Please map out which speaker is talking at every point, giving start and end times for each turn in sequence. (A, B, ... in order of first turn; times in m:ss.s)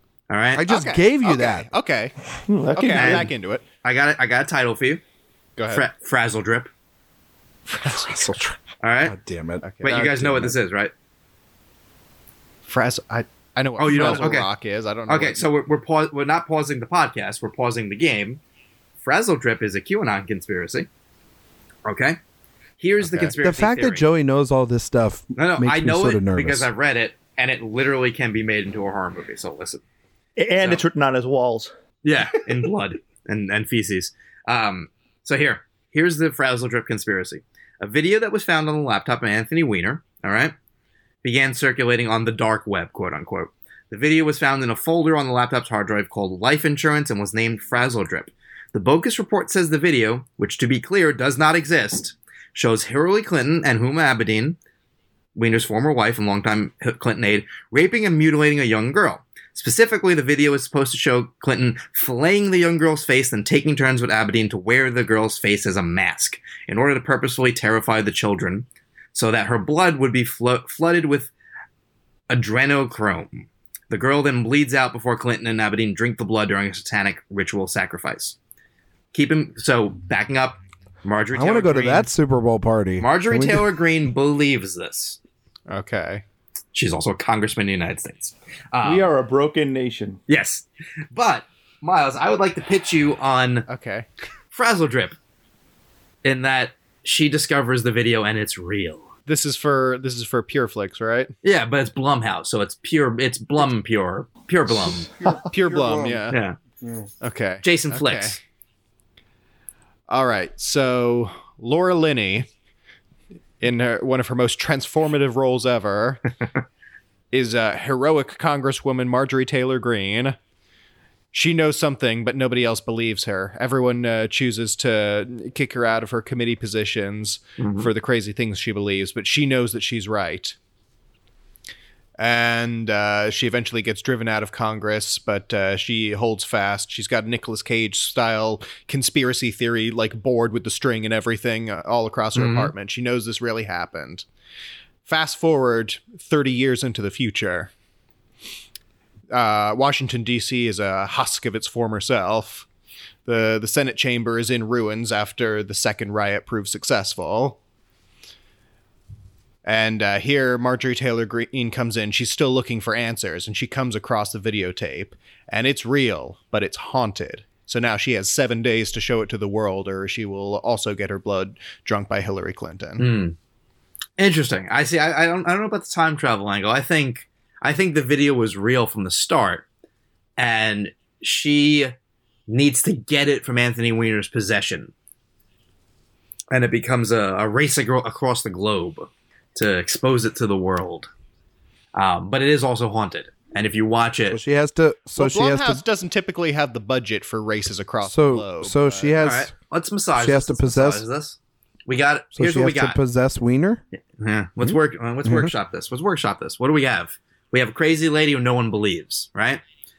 0:00.3-0:00.6 A
0:00.5-0:01.7 B
0:00.7-0:02.1 C
0:02.5-0:03.3 D
0:02.7-0:03.6 C
0:02.9-0:03.3 A
0:03.8-0:05.0 A
0:05.6-0:05.9 C
0:05.7-0:06.7 A
0:07.7-0:08.3 C
0:07.8-0:09.6 B
0:08.8-0:09.2 A
0:09.6-0:10.5 C
0:09.8-0:10.9 A
0:12.7-0:15.4 C
0:13.8-0:14.5 A
0:15.1-0:18.4 A
0:19.0-0:20.9 A
0:21.8-0:22.2 A
0:22.8-0:24.0 A
0:23.0-0:23.3 C
0:23.4-0:26.7 B
0:25.4-0:29.8 A
0:30.4-0:31.7 D
0:30.6-0:30.8 A
0:32.0-0:40.5 A
0:41.2-0:54.6 A
0:55.3-1:11.3 A
1:12.3-1:18.4 A
1:19.1-1:22.1 A
1:21.3-1:23.7 B
1:23.0-1:25.2 A
1:25.7-1:26.2 C
1:26.7-1:29.1 A
1:28.8-1:30.2 D
1:30.3-1:33.6 A
1:33.7-1:34.1 C
1:34.5-1:35.2 A
1:36.2-1:39.1 A
1:39.3-1:41.3 C
1:41.4-1:45.1 A
1:45.2-1:46.2 B
1:45.5-1:46.4 C
1:46.3-1:46.6 A
1:46.8-1:47.1 B
1:47.2-1:48.4 C
1:47.6-1:48.4 A
1:50.1-1:52.4 C
1:53.6-1:56.2 C
1:57.3-2:00.4 C
2:01.3-2:10.6 C
2:07.6-2:07.9 A
2:12.2-2:24.2 C
2:22.3-2:22.7 A
2:25.0-2:27.7 C
2:29.3-2:32.6 C
2:33.2-2:37.6 C
2:39.6-2:53.1 C
2:53.0-2:53.4 A
2:54.2-2:59.6 A
3:00.4-3:01.9 A
3:02.5-3:04.9 A
3:06.5-3:11.1 A
3:11.9-3:14.4 A
3:14.3-3:15.8 B
3:15.2-3:19.2 C
3:18.0-3:19.5 B
3:19.2-3:23.0 A
3:20.2-3:21.0 B
3:22.3-3:23.8 B
3:24.2-3:29.6 A
3:24.6-3:25.5 B